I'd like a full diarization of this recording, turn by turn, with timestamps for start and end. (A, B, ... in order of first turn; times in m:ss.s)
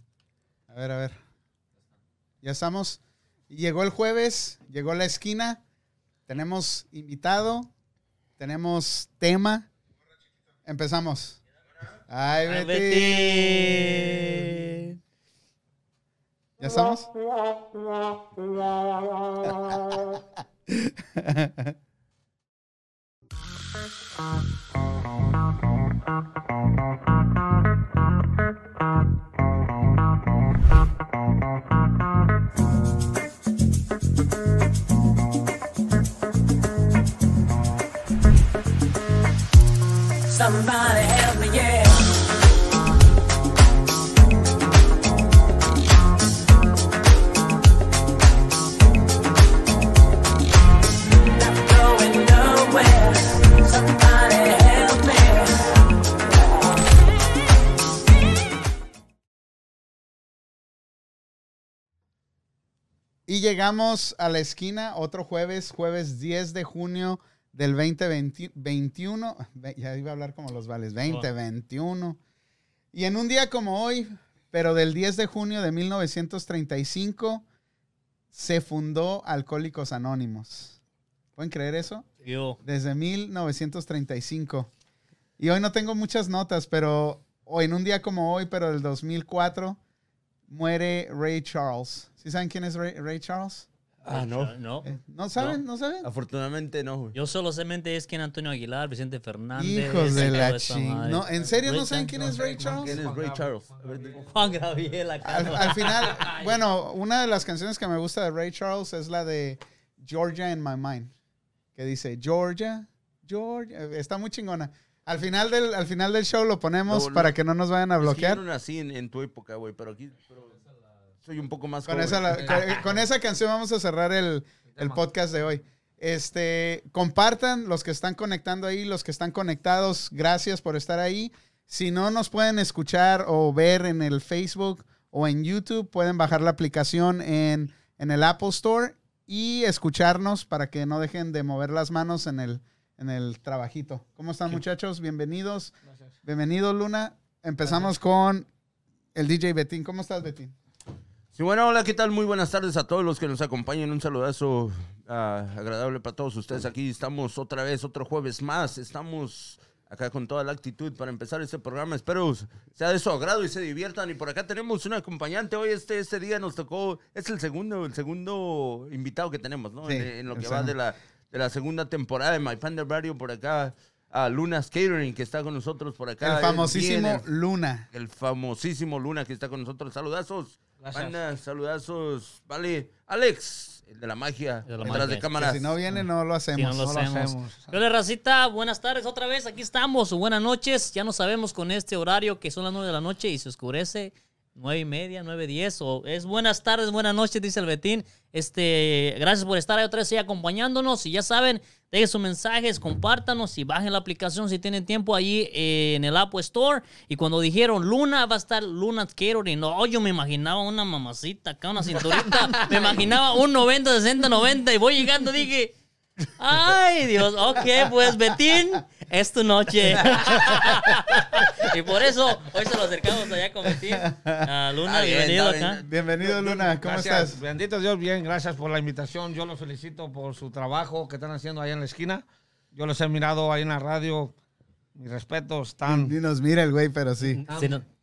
0:00.7-0:01.2 A
0:02.4-0:05.6 A
0:06.3-0:07.7 A
0:08.4-0:09.7 A
0:10.7-0:11.4 A
0:12.1-0:13.8 A
0:12.5-0:14.9 B
0:16.6-0:17.1 A
0:19.4-0:21.8 A
0:40.3-0:42.0 C
0:51.5-0:55.6 C
1:03.3-1:12.2 A
1:12.9-1:17.4 A
1:18.3-1:20.8 A
1:21.4-1:22.1 A
1:22.2-1:22.6 B
1:22.6-1:24.7 A
1:25.4-1:29.8 A
1:30.5-1:33.7 A
1:34.0-1:34.5 D
1:34.1-1:34.9 B
1:34.8-1:36.1 A
1:36.0-1:37.2 D
1:37.1-1:42.1 B
1:39.6-1:43.0 A
1:41.7-1:44.5 E
1:42.7-1:44.3 D
1:44.3-1:46.2 B
1:45.2-1:51.1 A
1:46.0-1:46.5 E
1:51.8-1:58.4 A
1:56.9-1:57.3 D
1:58.0-2:00.6 D
2:01.2-2:02.8 D
2:01.9-2:25.7 A
2:02.4-2:02.8 E
2:04.8-2:05.0 E
2:25.9-2:26.1 E
2:26.2-2:28.5 A
2:27.7-2:27.9 E
2:29.2-2:30.5 A
2:31.3-2:57.2 D
2:49.8-2:50.7 A
2:56.2-2:57.9 A
2:57.9-3:05.8 D
3:00.8-3:01.2 E
3:04.7-3:05.3 B
3:05.2-3:06.8 A
3:06.6-3:35.7 B
3:06.8-3:07.8 E
3:32.5-3:32.9 E
3:36.4-3:45.8 B
3:40.0-3:40.3 D
3:43.9-3:44.5 A
3:44.8-3:45.9 D
3:45.8-3:47.4 A
3:46.2-3:54.3 E
3:55.0-3:56.2 E
3:55.9-3:57.4 A
3:57.3-3:57.8 B
3:57.5-3:57.8 E